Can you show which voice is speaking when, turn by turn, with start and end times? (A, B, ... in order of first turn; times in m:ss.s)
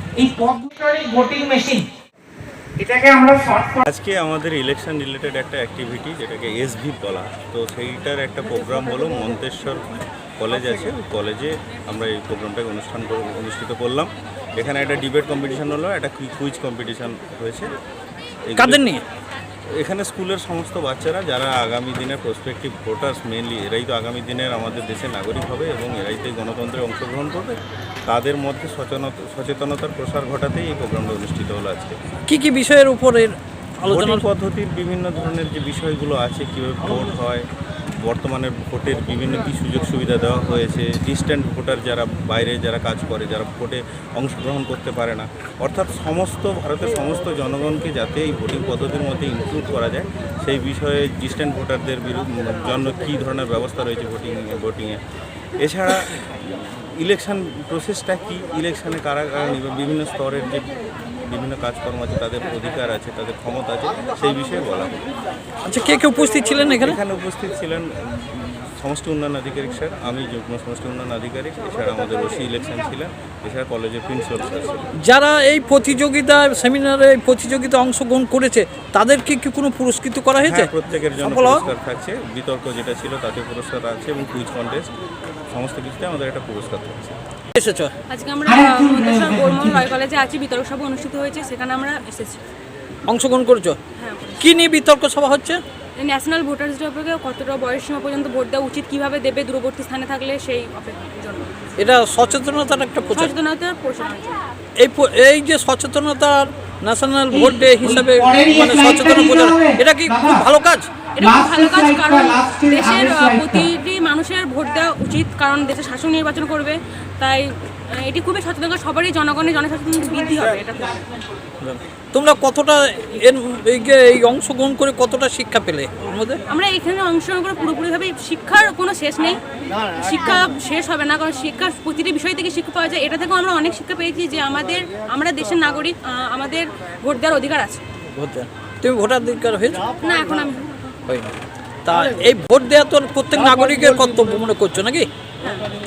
0:00.2-0:01.8 A
0:02.8-0:03.8 A
0:03.9-0:09.8 B
0:10.4-0:17.7 B
0:18.5-0:18.8 B
0:18.6-0:19.0 C
0:19.8-0:32.0 B
0:32.3-0:34.2 C
0:33.9-0:55.0 B
0:55.6-1:00.7 B
1:01.2-1:05.0 B
1:05.6-1:07.0 C
1:06.8-1:14.9 B
1:15.0-1:20.7 C
1:20.4-1:24.9 B
1:21.2-1:21.6 C
1:25.5-1:27.2 B
1:27.6-1:27.9 C
1:28.1-1:32.4 D
1:28.4-1:29.9 A
1:33.1-1:33.8 C
1:34.0-1:34.6 D
1:34.4-1:35.6 C
1:36.0-1:41.6 D
1:41.8-1:43.3 C
1:43.1-1:44.4 D
1:44.8-1:50.9 C
1:47.3-1:50.4 A
1:51.2-1:53.7 A
1:51.4-2:00.9 D
2:00.0-2:01.0 A
2:01.6-2:06.4 C
2:06.5-2:09.4 D
2:10.0-2:17.8 D
2:18.2-2:19.9 C
2:20.0-2:20.8 D
2:21.1-2:21.3 C
2:21.8-2:25.1 C